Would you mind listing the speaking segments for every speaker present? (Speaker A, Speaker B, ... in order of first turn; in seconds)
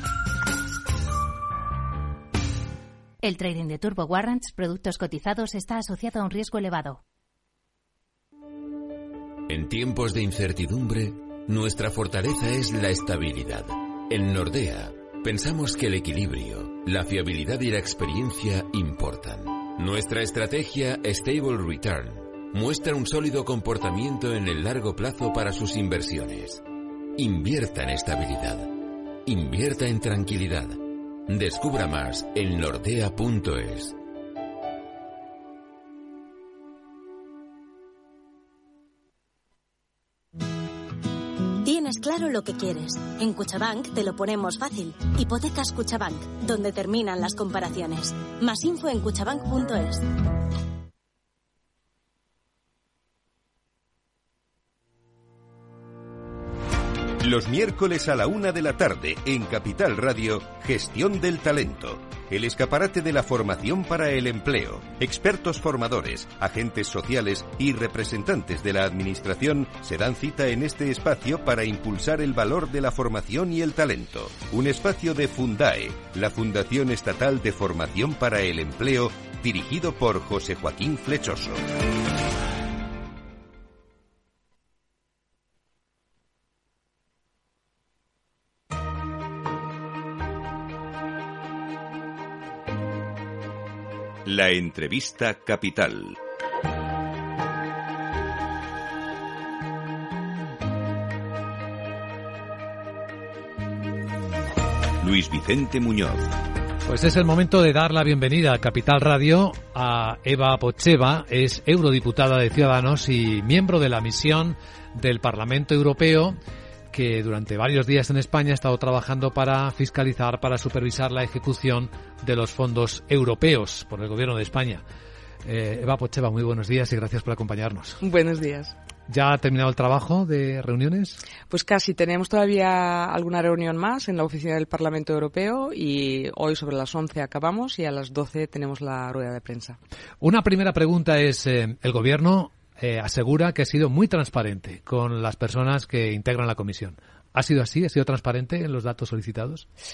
Speaker A: 3.2-7.0
Speaker B: 9.5-26.6, 27.2-34.0
Speaker C: 41.6-50.0
Speaker D: 57.2-81.6, 94.2-96.2, 105.0-106.3
Speaker E: 106.9-116.4, 116.9-124.8, 125.5-128.0, 129.1-131.2, 140.2-149.7
Speaker F: 128.0-128.7, 131.5-139.8